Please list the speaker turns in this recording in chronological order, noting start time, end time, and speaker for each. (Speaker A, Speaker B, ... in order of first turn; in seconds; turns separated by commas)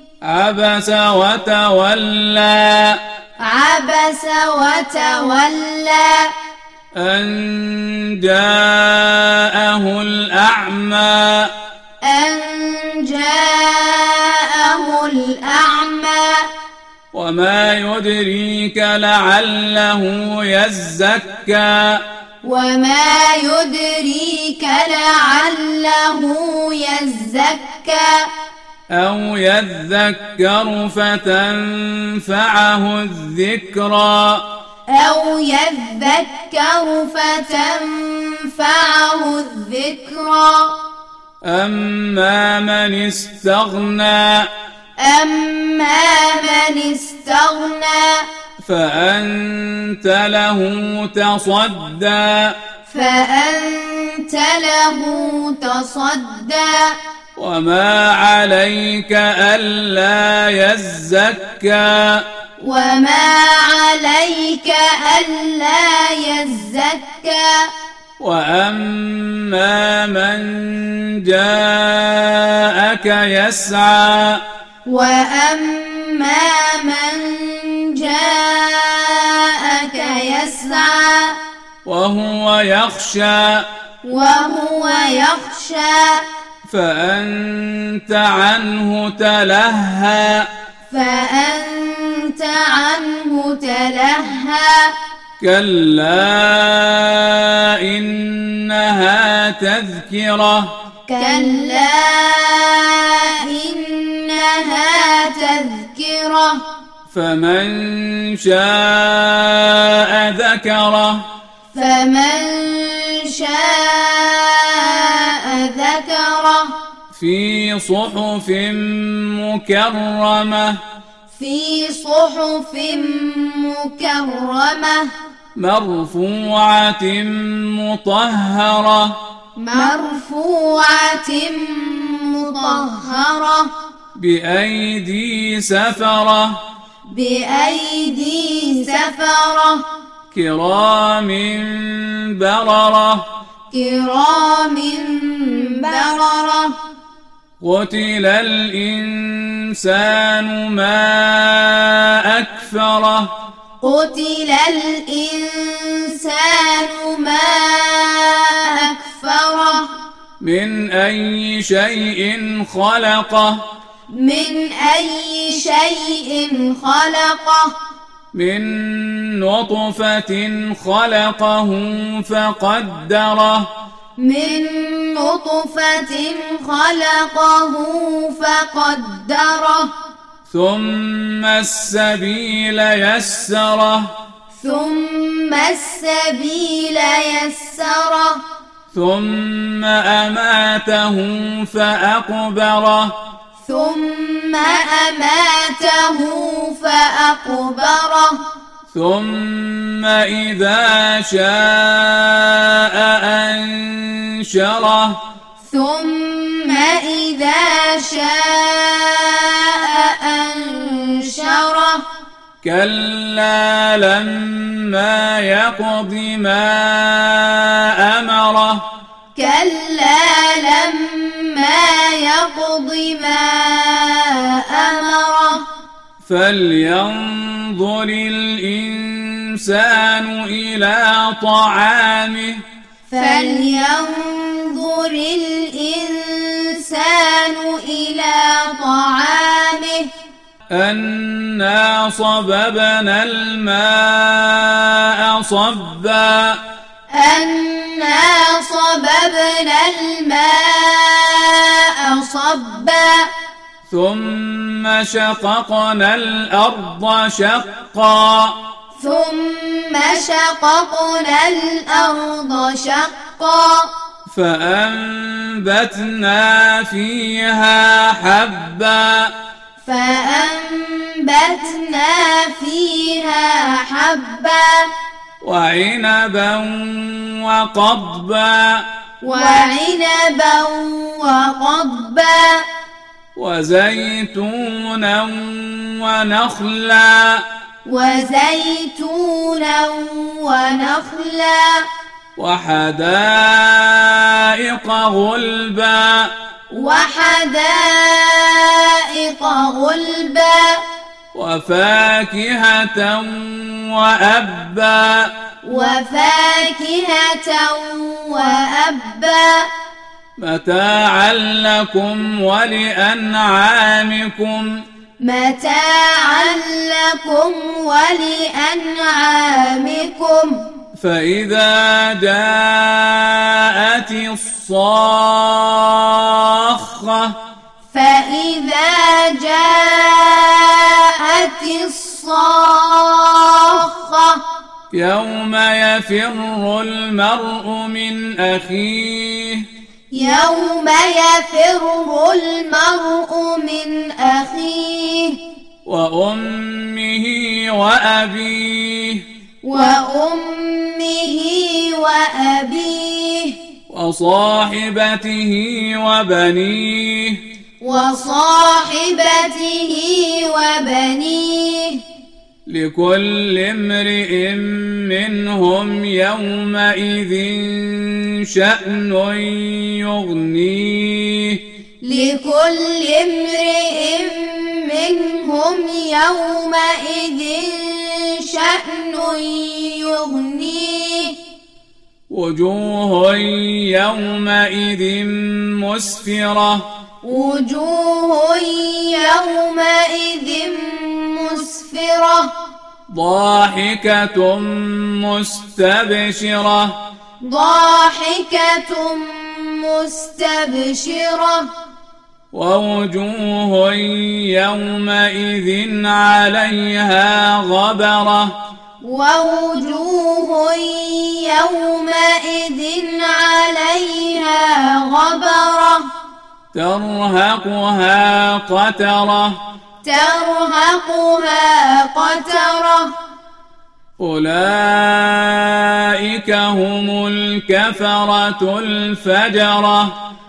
Speaker A: 0.2-3.0, Speaker B: 3.4-6.3, Speaker A: 7.0-11.5, Speaker B: 12.0-16.4, Speaker A: 17.1-22.0, Speaker B: 22.4-28.3, Speaker A: 28.9-34.4, Speaker B: 34.9-40.8, Speaker A: 41.4-44.5, Speaker B: 45.0-48.2, Speaker A: 48.6-52.5, Speaker B: 52.9-57.0, Speaker A: 57.4-62.2, Speaker B: 62.6-67.7, Speaker A: 68.2-74.4, Speaker B: 74.9-81.4, Speaker A: 81.8-83.7, Speaker B: 84.0-86.2, Speaker A: 86.7-90.5, Speaker B: 90.9-94.9, Speaker A: 95.4-100.7, Speaker B: 101.1-106.6, Speaker A: 107.1-111.3, Speaker B: 111.7-116.7, Speaker A: 117.1-120.8, Speaker B: 121.3-125.1, Speaker A: 125.6-129.2, Speaker B: 129.6-133.7, Speaker A: 134.2-136.6, Speaker B: 137.1-139.9, Speaker A: 140.3-143.3, Speaker B: 143.7-146.8, Speaker A: 147.6-153.3, Speaker B: 153.8-159.9, Speaker A: 160.4-163.6, Speaker B: 164.1-167.7, Speaker A: 168.3-173.7, Speaker B: 174.2-179.9, Speaker A: 180.5-184.1, Speaker B: 184.5-188.4, Speaker A: 188.9-193.2, Speaker B: 193.6-198.4, Speaker A: 198.9-205.2, Speaker B: 205.7-212.1, Speaker A: 212.6-218.8, Speaker B: 219.3-225.7, Speaker A: 226.2-232.6, Speaker B: 233.1-240.1, Speaker A: 240.7-246.6, Speaker B: 247.1-253.3, Speaker A: 253.9-258.6, Speaker B: 259.0-263.9, Speaker A: 264.3-269.3, Speaker B: 269.8-274.9, Speaker A: 275.4-278.8, Speaker B: 279.2-282.6, Speaker A: 283.4-287.4, Speaker B: 287.9-291.9, Speaker A: 292.4-296.3, Speaker B: 296.7-300.8, Speaker A: 301.3-305.3, Speaker B: 305.6-309.7, Speaker A: 310.4-314.8, Speaker B: 315.2-320.6, Speaker A: 321.0-327.4, Speaker B: 327.9-334.4, Speaker A: 334.9-339.6, Speaker B: 340.1-345.4, Speaker A: 345.9-349.2, Speaker B: 349.6-353.6, Speaker A: 353.9-357.4, Speaker B: 357.8-362.0, Speaker A: 362.7-371.6, Speaker B: 372.0-381.4, Speaker A: 382.3-386.9, Speaker B: 387.2-392.5, Speaker A: 393.1-397.0, Speaker B: 397.4-401.7, Speaker A: 402.5-408.6, Speaker B: 409.0-416.1, Speaker A: 416.7-419.6, Speaker B: 420.0-423.1, Speaker A: 424.2-430.1